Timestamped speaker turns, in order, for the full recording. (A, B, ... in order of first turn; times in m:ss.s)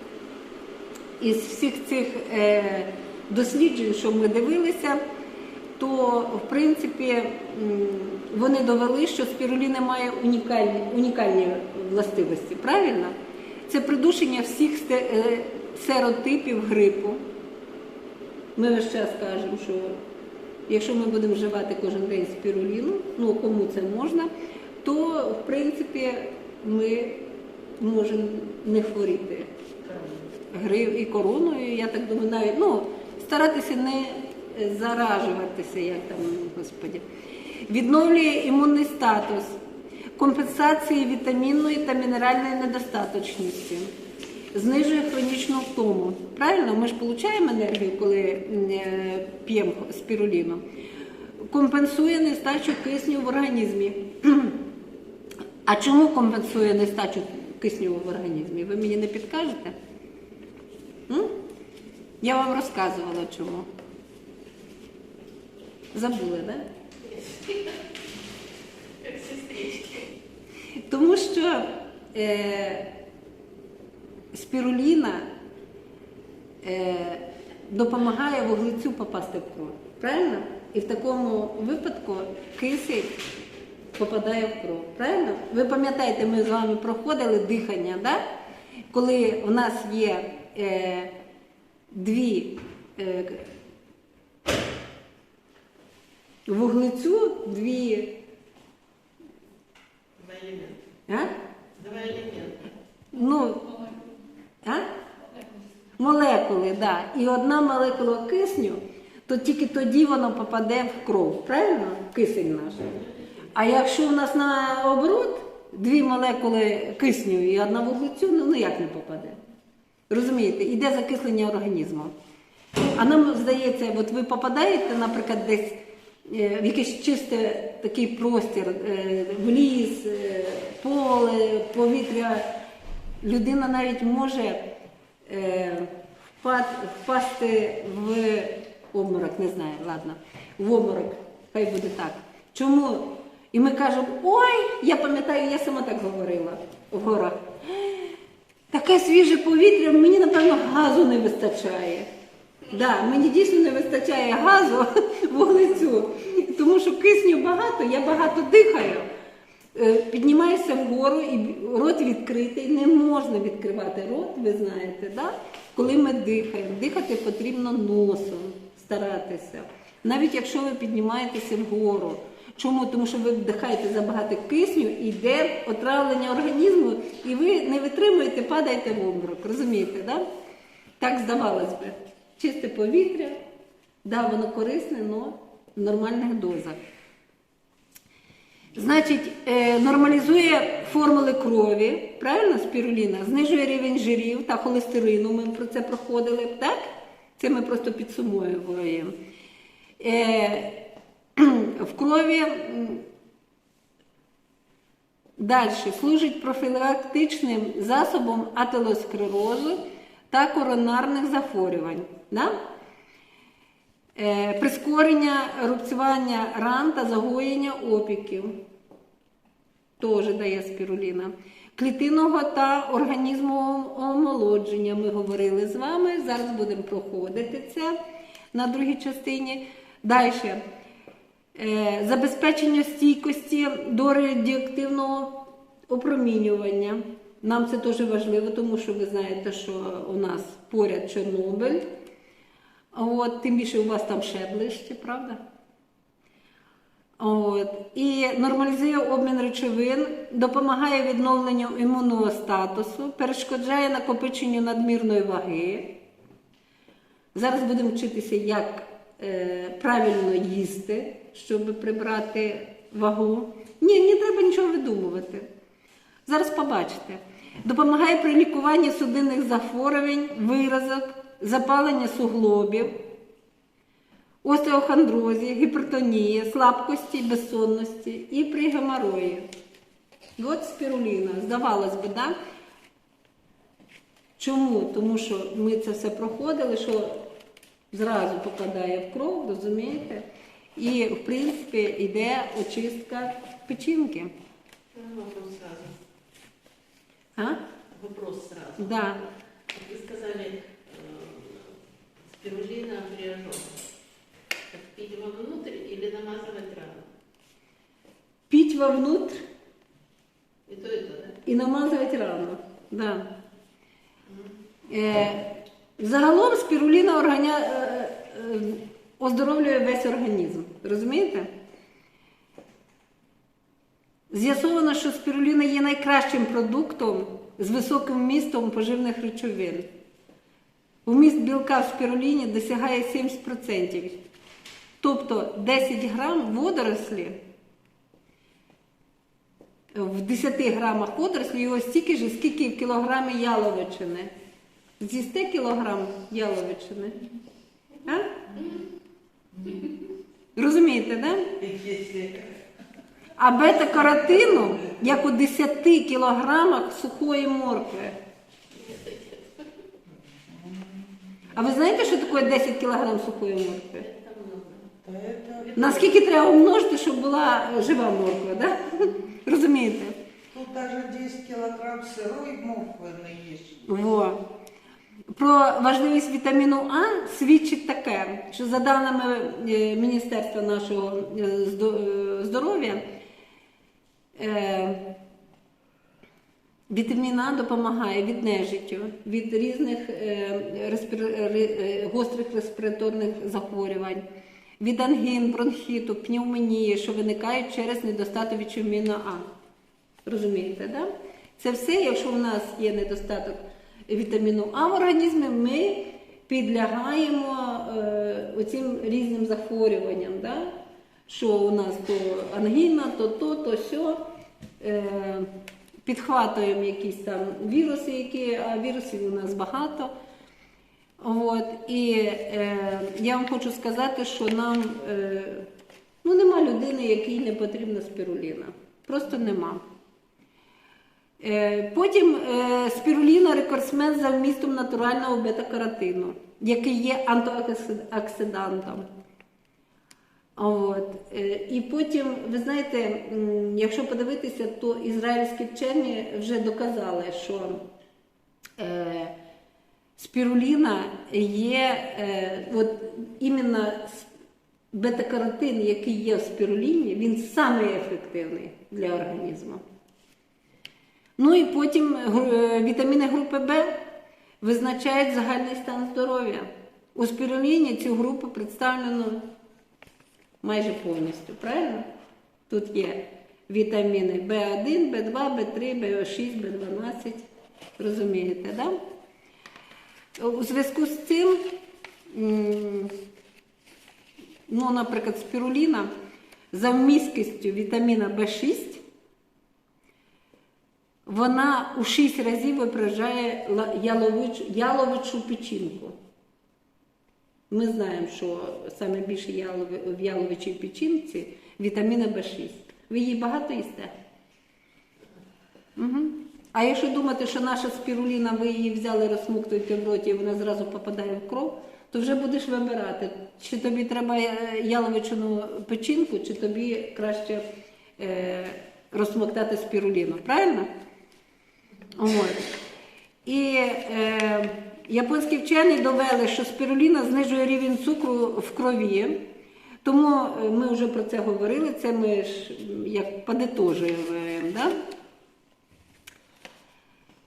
0:01.2-0:05.0 A
0:05.8-0:13.2 A
0:13.7-0:17.2 A
0:18.6-0:20.0 A
0:20.7-0:24.3 A
0:24.8-0:27.2 A
0:27.8-0:29.5 A
0:29.9-0:30.2 B
0:30.5-0:37.0 A
0:37.7-0:39.6 A
0:40.2-0:43.9 A
0:44.5-0:50.6 A
0:51.5-0:54.6 A
0:55.6-0:59.8 A
1:02.2-1:03.7 A
1:05.9-1:06.6 A
1:07.0-1:07.8 C
1:09.0-1:10.1 C
1:10.9-1:12.9 A
1:14.3-1:15.3 A
1:16.6-1:23.2 A
1:24.0-1:28.2 A
1:28.9-1:31.1 A
1:31.9-1:33.5 A
1:36.5-1:38.2 A
1:40.2-1:40.8 C
1:41.1-1:41.3 A
1:41.8-1:42.7 C
1:43.1-1:43.7 A
1:46.0-1:53.0 A
1:53.6-1:59.4 A
2:00.1-2:02.1 A
2:02.9-2:12.5 A
2:13.2-2:14.6 A
2:15.3-2:28.1 A
2:28.7-2:32.1 A
2:32.7-2:39.1 A
2:39.8-3:00.2 A
3:01.0-3:03.4 A
3:04.0-3:06.8 A
3:08.8-3:19.2 A
3:20.0-3:20.8 A
3:21.4-3:23.0 A
3:25.4-3:29.8 A
3:30.3-3:32.6 A
3:34.2-3:38.6 A
3:40.0-3:48.0 A
3:48.5-3:50.6 A
3:51.6-4:01.8 A
4:02.9-4:05.4 A
4:07.2-4:16.0 A
4:17.3-4:25.5 A
4:26.3-4:33.0 A
4:34.4-4:39.5 A
4:40.4-4:42.4 A
4:44.4-4:47.3 A
4:47.9-4:54.3 A
4:54.9-4:56.0 C
4:57.9-5:01.7 C
4:58.8-4:59.2 A
5:02.3-5:03.8 C
5:04.7-5:07.1 C
5:08.5-5:09.4 A
5:10.7-5:11.4 C
5:11.4-5:13.3 A
5:14.9-5:21.5 A
5:24.3-5:29.9 A
5:31.0-5:34.2 A
5:35.0-5:37.4 A
5:39.9-5:44.3 A
5:45.0-5:47.2 A
5:50.6-5:51.5 A
5:51.6-5:52.6 B
5:53.4-5:58.2 A
5:54.1-5:54.7 B
5:58.7-5:59.7 C
6:00.5-6:01.1 B
6:01.5-6:04.1 A
6:04.0-6:05.0 C
6:05.0-6:06.0 B
6:05.7-6:06.0 C
6:05.8-6:10.2 A
6:10.5-6:13.8 B
6:13.8-6:14.4 A
6:15.3-6:23.0 A
6:24.4-6:25.0 A
6:26.9-6:34.2 A
6:34.8-6:39.5 A
6:40.3-6:50.7 A
6:51.3-6:54.2 A
6:54.8-6:55.5 A
6:56.0-7:00.1 A
7:01.2-7:05.7 A
7:06.2-7:09.8 A
7:11.4-7:19.1 A
7:20.6-7:27.8 A
7:28.8-7:29.3 A
7:30.2-7:34.3 A
7:34.9-7:39.8 A
7:41.4-7:44.0 A
7:44.6-7:49.5 A
7:50.6-7:52.1 A
7:52.7-7:57.4 A
7:58.0-7:59.0 A
8:00.4-8:01.7 A
8:02.3-8:03.2 A
8:04.7-8:06.1 A
8:06.7-8:09.0 A
8:11.3-8:16.2 A
8:17.7-8:24.1 A
8:26.0-8:37.6 A
8:38.2-8:40.9 A
8:42.2-8:42.7 A
8:43.4-8:49.4 A
8:50.0-8:54.9 A